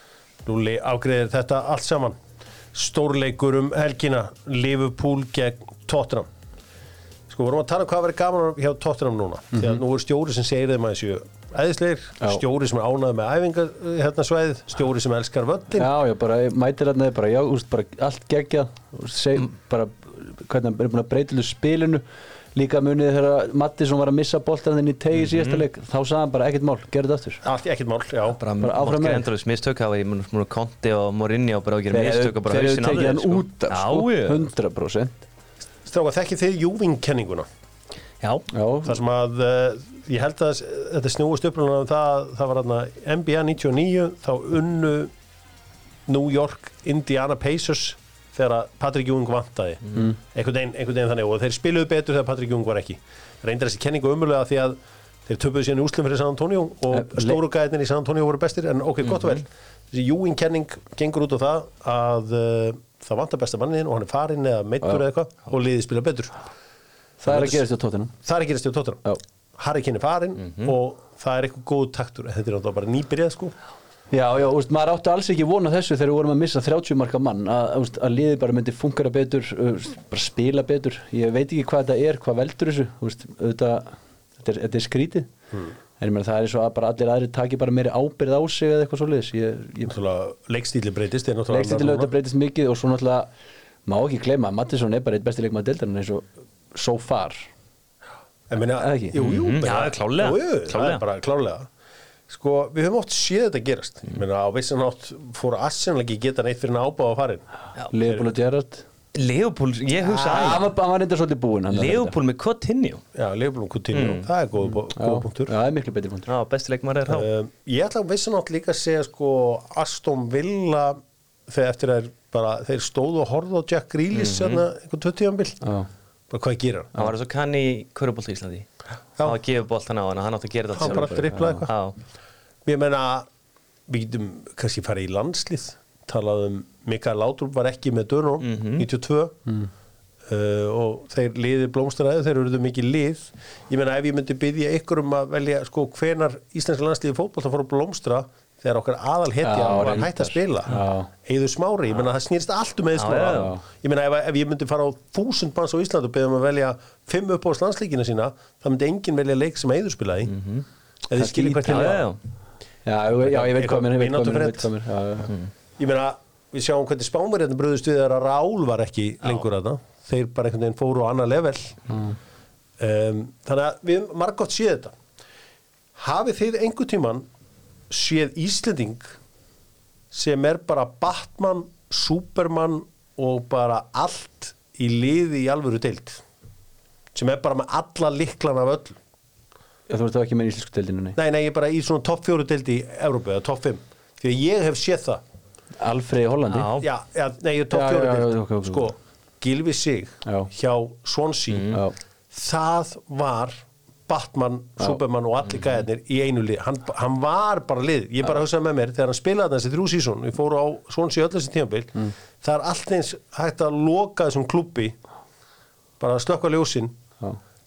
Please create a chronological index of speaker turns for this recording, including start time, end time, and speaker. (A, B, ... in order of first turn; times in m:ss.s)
0:00.4-0:02.2 A
0:02.7-0:06.3 A
0:07.3-0:15.9 A
0:15.7-0:22.0 B
0:22.6-0:27.4 B
0:25.1-0:25.7 C
0:27.4-0:28.4 A
0:28.4-0:34.4 C
0:28.6-0:29.3 B
0:31.9-0:35.1 B
0:35.9-0:37.5 A
0:38.2-0:38.5 C
0:38.5-0:39.0 B
0:38.8-0:45.1 A
0:46.1-1:06.4 A
0:56.9-0:57.4 B
1:07.2-1:08.1 B
1:07.3-1:07.6 A
1:08.2-1:09.0 A
1:09.6-1:13.5 A
1:10.4-1:10.7 C
1:14.1-1:25.3 B
1:26.0-1:30.0 B
1:29.9-1:32.1 A
1:31.5-1:33.3 B
1:33.9-1:37.5 B
1:38.5-1:41.7 A
1:38.8-1:39.2 B
1:39.2-1:41.0 C
1:42.3-1:47.4 A
1:47.9-1:48.8 B
1:49.1-1:50.7 C
1:50.1-1:50.6 A
1:50.2-1:52.2 B
1:51.7-1:53.0 C
1:53.2-1:55.5 A
1:53.9-1:54.3 C
1:54.9-1:56.3 B
1:56.3-1:57.3 C
1:57.1-2:05.6 A
2:04.1-2:04.6 C
2:05.6-2:05.9 B
2:06.3-2:07.0 A
2:07.0-2:08.7 C
2:09.2-2:12.0 C
2:10.7-2:11.7 A
2:11.1-2:11.7 B
2:12.7-2:13.3 A
2:13.9-2:19.4 A
2:18.4-2:18.9 C
2:20.3-2:40.4 A
2:29.4-2:31.1 B
2:33.0-2:33.5 C
2:33.3-2:33.6 B
2:40.3-2:40.6 C
2:41.1-2:42.1 A
2:41.2-2:42.0 B
2:41.7-2:42.2 C
2:42.8-2:45.3 B
2:43.2-2:44.7 A
2:45.8-2:51.8 A
2:51.9-2:52.2 B
2:52.8-2:55.0 A
2:56.0-2:57.3 A
2:57.9-2:59.2 A
3:00.1-3:06.2 A
3:07.2-3:09.0 A
3:09.9-3:11.2 B
3:11.2-3:15.2 A
3:15.8-3:16.7 B
3:16.5-3:16.9 C
3:16.8-3:21.8 A
3:17.7-3:18.9 B
3:21.5-3:21.8 C
3:21.7-3:22.0 B
3:22.3-3:35.0 A
3:36.0-3:37.0 A